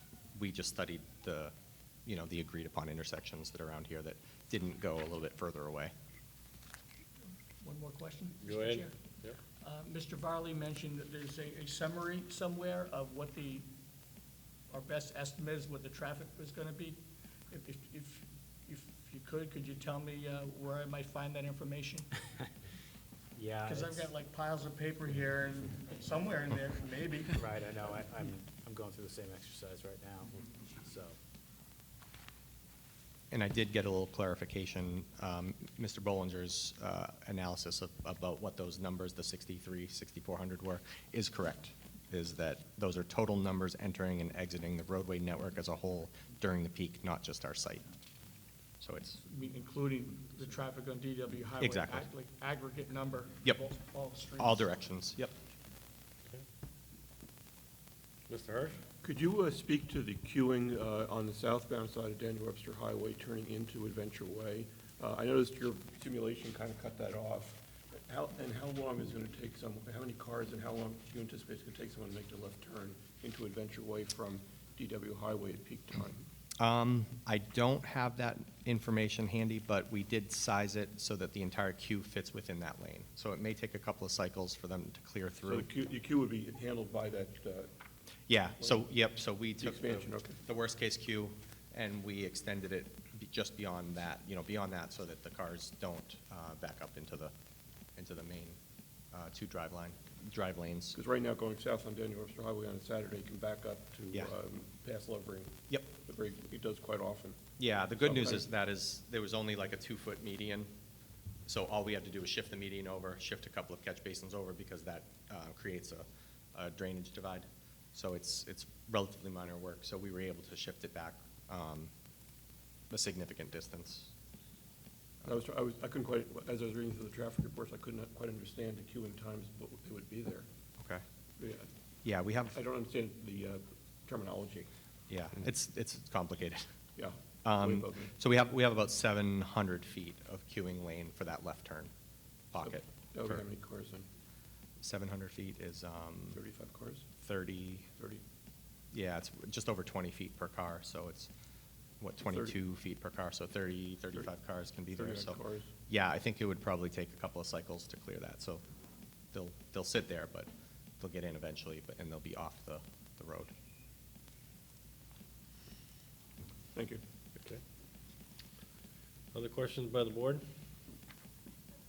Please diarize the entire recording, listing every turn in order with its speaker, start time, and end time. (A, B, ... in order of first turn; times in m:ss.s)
0:00.3-0:01.5 A
0:02.0-0:05.9 A
0:07.6-0:08.9 B
0:08.4-0:09.4 C
0:09.6-0:13.7 B
0:14.7-0:22.1 B
0:23.3-0:24.1 D
0:23.6-0:27.4 B
0:27.3-0:31.2 D
0:33.3-0:47.8 A
0:48.8-0:49.2 A
0:49.2-0:54.7 B
0:51.6-0:52.0 A
0:54.4-0:55.3 A
0:58.3-0:58.8 C
0:59.0-1:16.2 E
1:16.6-1:25.7 A
1:25.4-1:27.7 E
1:28.3-1:37.3 A
1:28.6-1:28.9 E
1:29.6-1:30.4 E
1:38.0-1:38.6 A
1:39.1-1:41.0 A
1:40.9-1:47.4 E
1:47.6-1:50.7 A
1:48.0-1:48.4 E
1:51.5-2:01.9 A
2:02.9-2:04.1 A
2:05.2-2:10.4 E
2:11.4-2:11.7 E
2:12.0-2:12.6 A
2:12.5-2:14.7 E
2:15.1-2:16.6 A
2:17.0-2:18.1 E
2:17.4-2:21.9 A
2:22.5-2:23.4 A
2:22.6-2:24.0 E
2:24.8-2:26.4 A
2:26.3-2:27.0 E
2:27.2-2:27.9 A
2:28.9-2:31.3 A
2:32.0-2:38.6 A
2:32.3-2:32.6 E
2:35.0-2:35.7 E
2:39.3-2:40.5 A
2:41.0-2:43.5 A
2:46.7-2:47.0 E
2:49.3-2:50.4 C